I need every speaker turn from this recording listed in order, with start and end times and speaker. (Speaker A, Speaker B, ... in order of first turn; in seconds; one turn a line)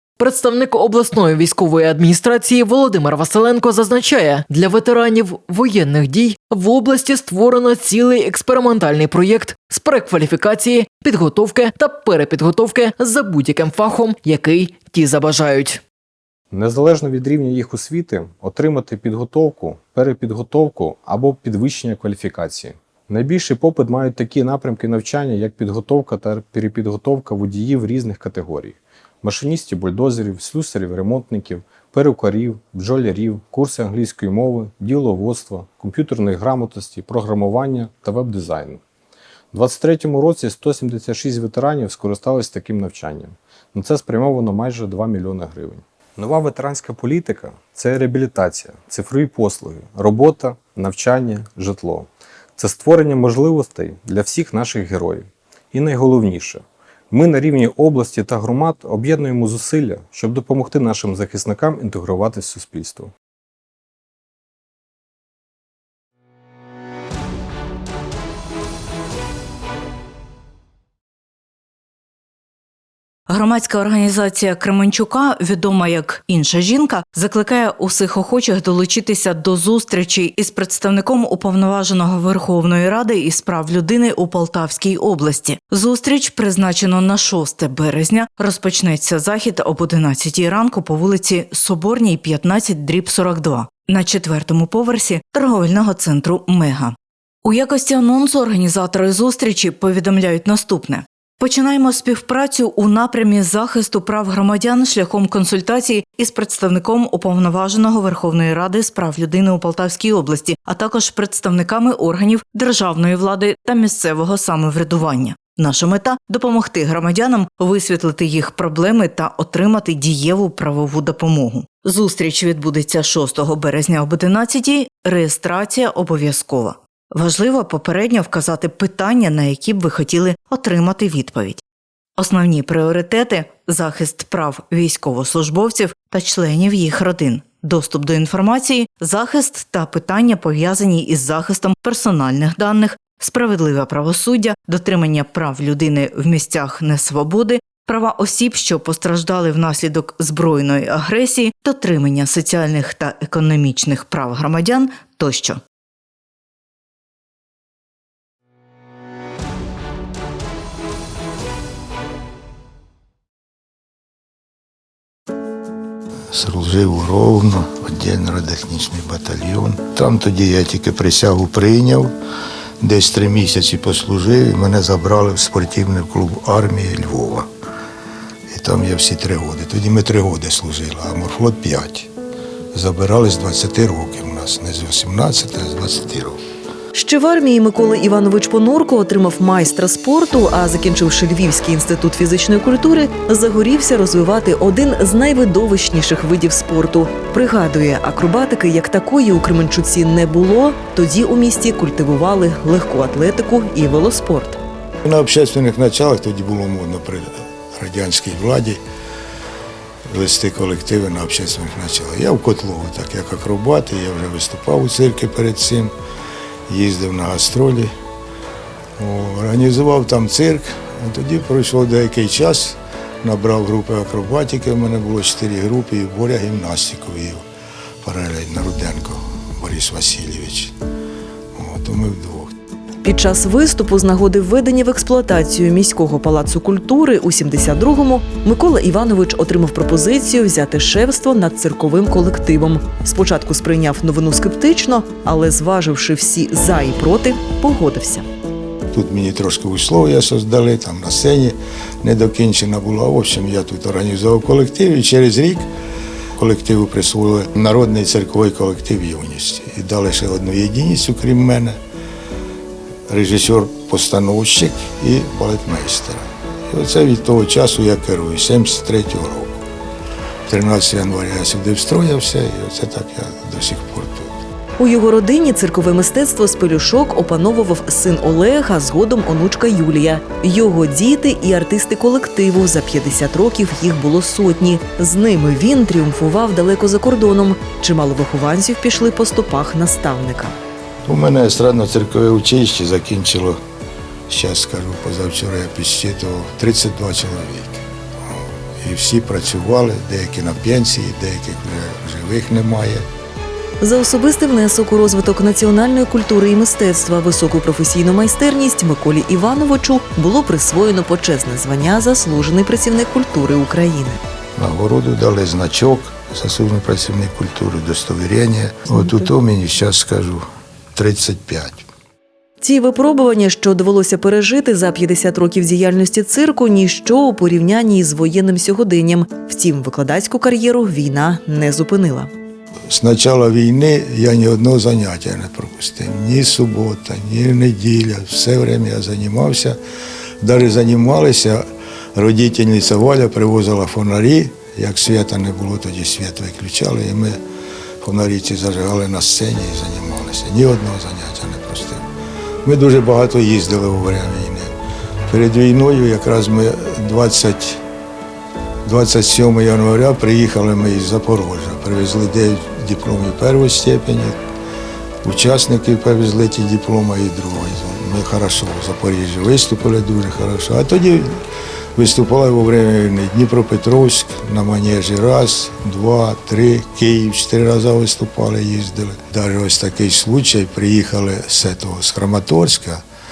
Speaker A: 0.2-15.8
Speaker B: 16.5-38.8
Speaker B: 39.5-63.1
Speaker C: 73.3-131.6
Speaker C: 132.2-155.6
Speaker D: 166.3-172.1
Speaker D: 172.8-177.5
Speaker D: 178.5-182.1
Speaker D: 182.7-186.4
Speaker E: 186.9-204.6
Speaker D: 205.1-208.8
Speaker D: 210.1-215.9
Speaker D: 216.7-217.9
Speaker D: 219.0-227.4
Speaker D: 228.0-230.7
Speaker D: 231.6-232.5
Speaker E: 233.0-248.2
Speaker D: 248.9-255.7
Speaker D: 256.4-261.8
Speaker D: 263.1-269.6
Speaker D: 270.5-274.3
Speaker E: 274.8-290.6
Speaker D: 291.1-293.6
Speaker D: 294.3-297.8
Speaker D: 298.8-303.0
Speaker E: 303.8-314.2
Speaker D: 314.6-321.9
Speaker E: 322.6-332.3
Speaker D: 332.9-339.8
Speaker D: 340.4-341.6
Speaker D: 342.1-347.4
Speaker D: 348.0-352.1
Speaker D: 352.6-354.7
Speaker D: 355.3-357.8
Speaker D: 358.9-364.4
Speaker D: 365.2-371.4
Speaker D: 372.0-383.0